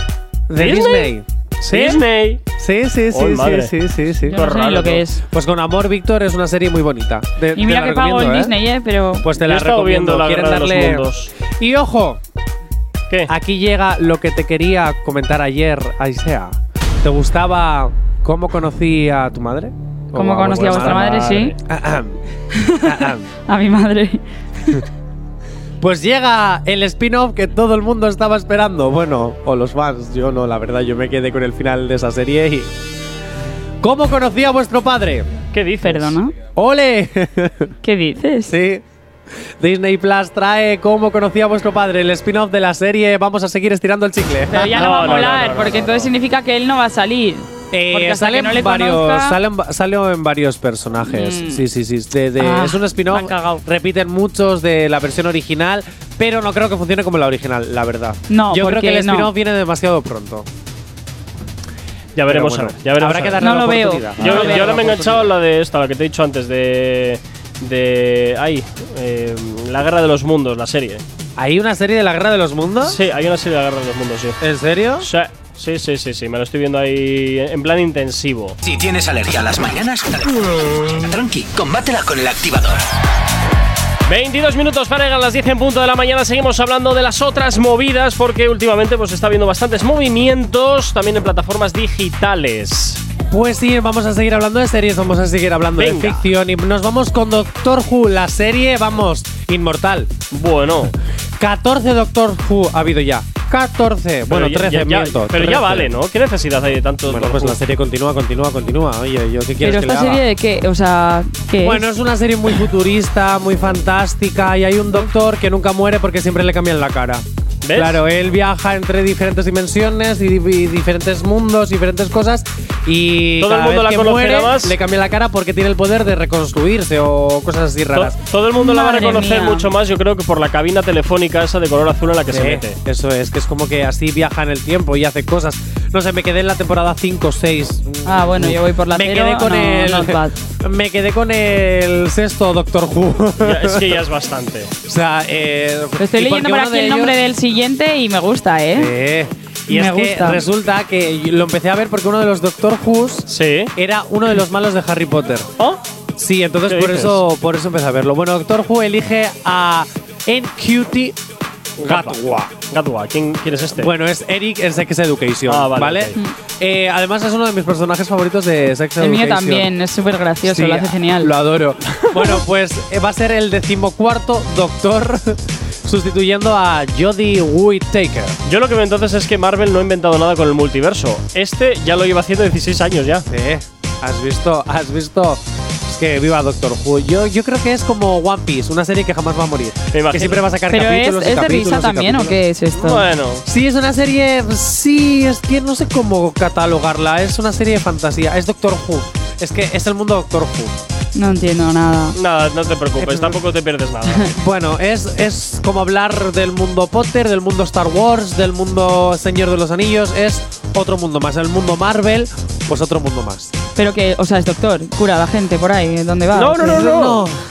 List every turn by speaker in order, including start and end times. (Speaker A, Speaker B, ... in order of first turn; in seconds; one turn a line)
Speaker A: 0.5-2.0
Speaker B: 0.6-1.1
Speaker B: 1.7-2.4
Speaker A: 2.6-4.4
Speaker B: 3.1-3.7
Speaker C: 4.3-5.2
Speaker B: 4.3-5.0
Speaker A: 5.3-8.5
Speaker C: 7.5-9.3
Speaker A: 9.2-12.2
Speaker B: 9.4-11.3
Speaker A: 13.3-22.2
Speaker C: 20.1-21.5
Speaker B: 20.6-21.6
Speaker C: 22.5-24.8
Speaker A: 22.7-23.3
Speaker A: 25.8-32.7
Speaker A: 33.8-35.3
Speaker B: 35.5-36.2
Speaker C: 35.8-36.3
Speaker A: 36.5-37.7
Speaker C: 37.8-38.5
Speaker A: 38.5-38.8
Speaker A: 39.6-45.2
Speaker C: 44.5-49.4
Speaker B: 44.7-46.1
Speaker A: 47.7-60.5
Speaker C: 51.1-51.6
Speaker C: 52.4-53.6
Speaker C: 58.3-59.3
Speaker B: 62.2-63.4
Speaker A: 62.2-65.3
Speaker C: 63.4-64.8
Speaker B: 64.2-71.0
Speaker A: 71.4-73.0
Speaker B: 72.8-74.4
Speaker A: 74.4-75.1
Speaker B: 75.0-78.6
Speaker D: 78.6-83.0
Speaker B: 84.1-93.0
Speaker A: 93.3-100.1
Speaker B: 95.8-96.2
Speaker B: 100.3-100.9
Speaker A: 101.4-105.9
Speaker B: 104.3-107.6
Speaker A: 107.1-110.2
Speaker C: 109.6-111.8
Speaker A: 111.6-128.2
Speaker B: 117.6-118.0
Speaker B: 123.4-124.8
Speaker B: 127.9-132.8
Speaker C: 128.6-129.7
Speaker A: 132.3-144.0
Speaker C: 138.1-140.4
Speaker B: 143.4-144.7
Speaker A: 144.9-147.2
Speaker C: 146.0-148.9
Speaker A: 148.7-155.5
Speaker C: 149.7-150.4
Speaker B: 153.3-153.7
Speaker A: 156.2-161.2
Speaker B: 156.7-157.2
Speaker B: 161.8-162.2
Speaker A: 161.8-162.5
Speaker B: 162.7-163.9
Speaker A: 163.8-169.7
Speaker B: 165.5-166.2
Speaker C: 169.0-171.3
Speaker A: 170.4-178.4
Speaker B: 178.5-183.3
Speaker A: 183.3-200.8
Speaker B: 189.9-190.5
Speaker C: 190.7-193.0
Speaker B: 192.8-193.4
Speaker C: 201.2-202.2
Speaker B: 202.2-204.3
Speaker A: 203.0-203.4
Speaker A: 204.2-213.6
Speaker C: 213.8-216.9
Speaker B: 216.3-217.3
Speaker A: 216.6-217.4